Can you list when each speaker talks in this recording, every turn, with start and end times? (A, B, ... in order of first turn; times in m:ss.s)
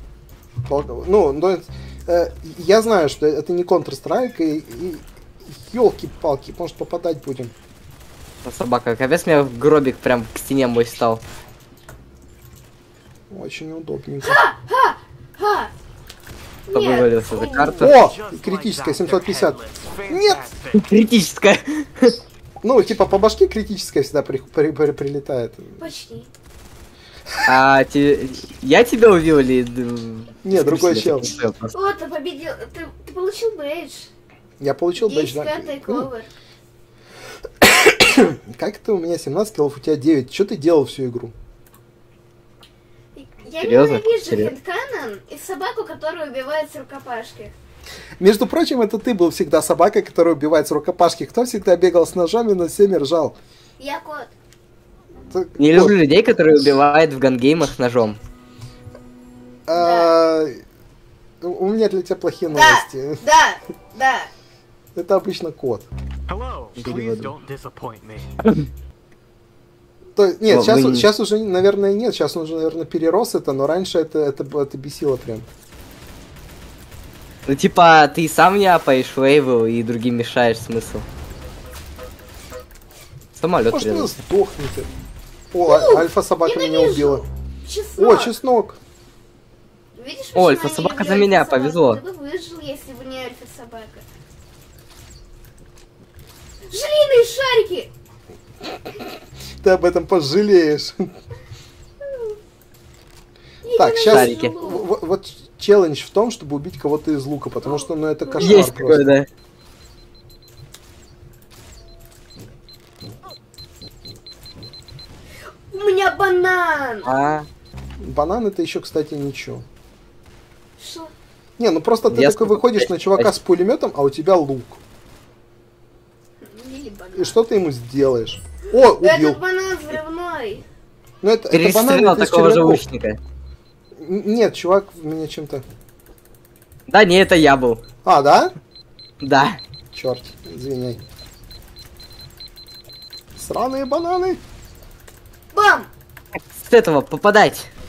0:00.7-0:07.5 A
0:08.4-0:11.2 B
0:13.3-0:14.4 A
0:14.2-0:15.7 C
0:16.7-0:17.8 C
0:16.7-0:17.9 B
0:17.5-0:20.9 D
0:17.8-0:20.5 A
0:20.7-0:22.2 B
0:22.6-0:25.8 A
0:25.8-0:26.3 C
0:27.4-0:31.7 B
0:30.4-0:31.4 A
0:31.7-0:34.1 C
0:34.6-0:36.1 A
0:35.0-0:36.3 C
0:37.6-0:41.3 A
0:43.1-0:47.5 C
0:43.6-0:44.5 B
0:48.2-0:53.4 A
0:53.8-0:54.3 C
0:55.3-0:56.0 A
0:55.6-0:58.2 B
0:59.7-1:00.6 A
0:59.8-1:00.1 C
1:01.4-1:03.2 A
1:02.5-1:04.3 C
1:04.9-1:05.9 A
1:06.3-1:08.5 D
1:06.8-1:07.3 A
1:10.2-1:15.5 A
1:10.5-1:11.0 B
1:17.4-1:21.0 B
1:23.4-1:24.1 B
1:23.7-1:24.9 A
1:25.5-1:27.2 A
1:25.6-1:28.3 C
1:28.0-1:28.8 A
1:30.0-1:34.0 C
1:30.4-1:32.0 B
1:36.7-1:37.9 C
1:39.6-1:41.1 A
1:42.1-1:42.3 C
1:43.6-1:44.8 C
1:43.8-1:49.1 A
1:44.0-1:44.5 B
1:47.6-1:48.8 C
1:48.4-1:49.3 B
1:55.7-1:57.1 C
1:57.0-1:57.5 B
1:58.0-1:59.6 A
2:00.8-2:01.1 C
2:01.6-2:04.8 A
2:02.1-2:03.3 B
2:06.4-2:07.4 C
2:07.1-2:09.4 A
2:08.9-2:10.6 C
2:11.2-2:12.8 A
2:11.5-2:13.2 B
2:13.9-2:15.6 A
2:16.9-2:17.8 B
2:18.0-2:18.5 A
2:19.2-2:19.6 B
2:19.9-2:21.0 A
2:23.4-2:24.4 A
2:25.5-2:25.9 C
2:26.5-2:27.7 B